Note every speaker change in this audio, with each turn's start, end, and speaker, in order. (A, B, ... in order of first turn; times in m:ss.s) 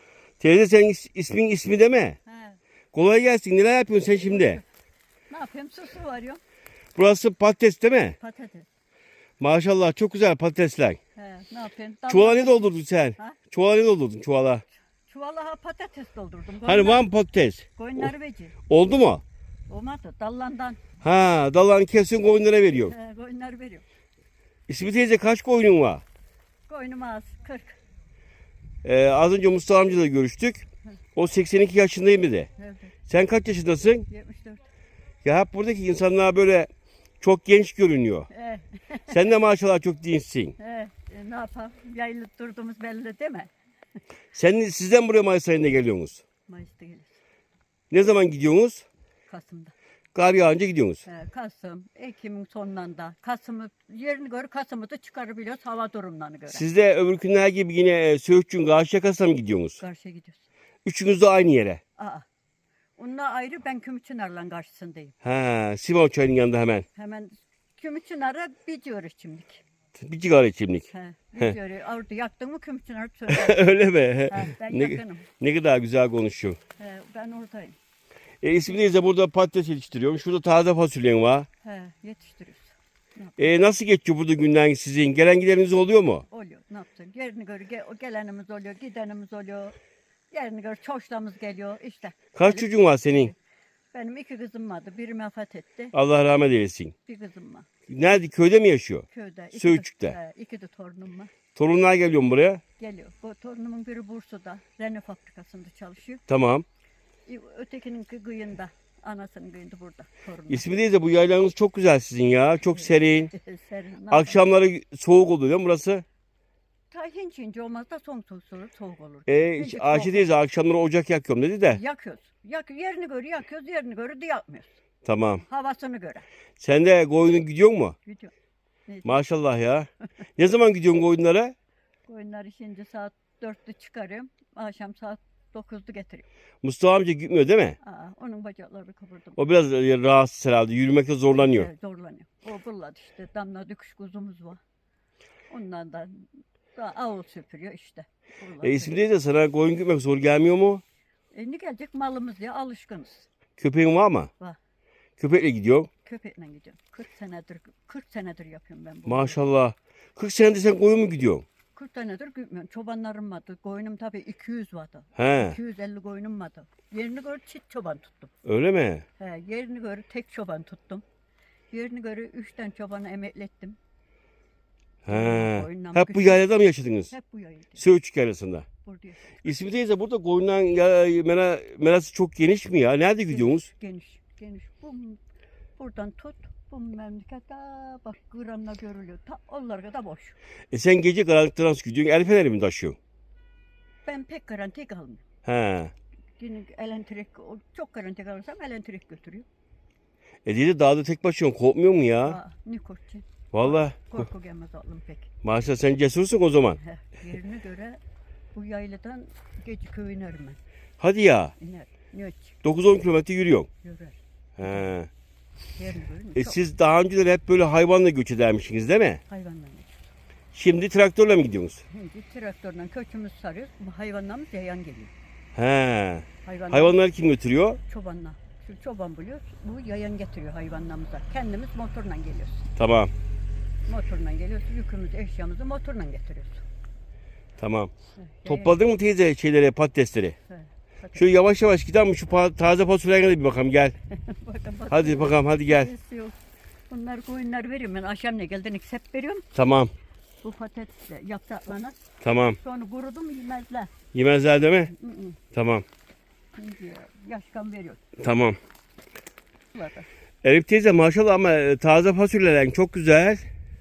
0:00.4-0:02.2 A
0:02.2-0:02.6 B
0:02.9-0:04.6 A
0:04.2-0:04.6 B
0:05.3-0:06.4 B
0:07.0-0:08.2 A
0:08.2-0:08.7 B
0:09.4-0:11.0 A
0:11.2-0:13.4 B
0:12.1-0:14.6 A
0:15.1-0:17.1 B
0:16.6-0:18.1 A
0:17.8-0:18.5 B
0:18.7-0:19.2 A
0:19.7-0:20.8 B
0:21.0-0:22.9 A
0:22.8-0:23.8 B
0:24.7-0:26.0 A
0:26.7-0:27.8 B
0:28.8-0:32.5 A
0:32.6-0:32.9 B
0:33.1-0:34.1 A
0:34.1-0:34.7 B
0:35.2-0:36.7 A
0:37.2-0:38.3 A
0:38.3-0:39.2 B
0:39.1-0:40.6 A
0:40.6-0:43.5 B
0:44.3-0:46.2 A
0:46.5-0:47.2 B
0:47.9-0:48.8 A
0:49.3-0:49.7 B
0:50.1-0:51.0 A
0:51.0-0:56.6 B
0:56.5-0:59.8 A
0:59.8-1:00.5 B
1:00.8-1:01.8 A
1:02.0-1:02.2 B
1:03.0-1:05.1 B
1:05.2-1:06.8 A
1:07.0-1:09.6 B
1:10.0-1:11.5 A
1:10.9-1:13.6 B
1:13.3-1:16.6 A
1:14.3-1:15.3 B
1:16.8-1:17.8 B
1:18.4-1:21.5 A
1:21.6-1:23.5 B
1:23.4-1:26.2 A
1:26.3-1:29.7 B
1:30.3-1:33.3 B
1:32.3-1:33.3 A
1:33.9-1:35.9 B
1:35.9-1:36.9 A
1:37.0-1:37.7 B
1:37.9-1:40.2 A
1:39.1-1:41.3 B
1:41.5-1:42.6 A
1:42.8-1:46.2 B
1:46.3-1:46.6 A
1:47.2-1:50.7 B
1:50.5-1:53.3 A
1:52.8-1:54.5 B
1:54.1-1:56.0 A
1:56.9-2:00.3 B
1:59.3-2:01.8 A
2:01.7-2:04.8 B
2:05.0-2:05.4 A
2:05.4-2:06.2 B
2:06.6-2:08.0 A
2:08.0-2:08.3 B
2:08.9-2:09.2 B
2:09.0-2:11.5 A
2:12.1-2:16.2 B
2:16.6-2:17.8 A
2:17.8-2:19.4 B
2:19.4-2:21.7 A
2:21.4-2:24.6 B
2:25.5-2:29.0 B
2:28.6-2:30.8 A
2:31.3-2:33.3 B
2:33.6-2:34.3 A
2:35.2-2:35.9 A
2:36.0-2:39.4 B
2:39.0-2:41.4 A
2:41.7-2:48.3 B
2:45.2-2:45.6 A
2:48.4-2:49.0 A
2:49.2-2:51.0 B
2:51.7-2:53.8 B
2:55.0-2:57.1 A
2:55.1-2:56.5 B
2:57.1-2:57.8 B
2:57.8-2:58.6 A
2:58.8-2:59.5 B
2:59.4-3:03.7 A
3:03.3-3:05.2 B
3:05.8-3:10.4 B
3:10.7-3:13.0 A
3:14.0-3:15.2 B
3:15.4-3:15.9 A
3:16.4-3:19.4 B
3:20.4-3:22.4 A
3:22.2-3:25.3 B
3:23.5-3:24.2 A
3:25.4-3:26.8 A
3:26.8-3:28.0 B
3:28.5-3:30.6 B
3:31.0-3:31.5 A
3:31.6-3:32.6 B
3:32.6-3:33.7 A
3:33.8-3:34.9 B
3:34.6-3:35.1 A
3:35.8-3:36.6 B
3:36.4-3:39.2 A
3:39.3-3:40.1 B
3:40.5-3:41.8 A
3:41.9-3:45.1 B
3:45.5-3:47.8 A
3:46.4-3:47.0 B
3:47.9-3:52.7 B
3:52.8-3:53.1 A
3:53.8-3:56.6 B
3:57.6-3:57.9 A
3:58.2-3:58.8 B
3:58.4-4:00.4 A
4:00.5-4:01.3 B
4:01.2-4:03.9 A
4:04.1-4:06.4 B
4:04.9-4:05.9 A
4:06.9-4:09.5 B
4:09.5-4:09.9 A
4:10.4-4:12.0 B
4:12.2-4:12.6 A
4:12.6-4:13.9 B
4:14.1-4:14.9 A
4:14.9-4:15.4 B
4:15.5-4:15.8 A
4:16.6-4:18.0 B
4:18.2-4:18.6 A
4:19.7-4:20.1 B
4:20.4-4:23.4 A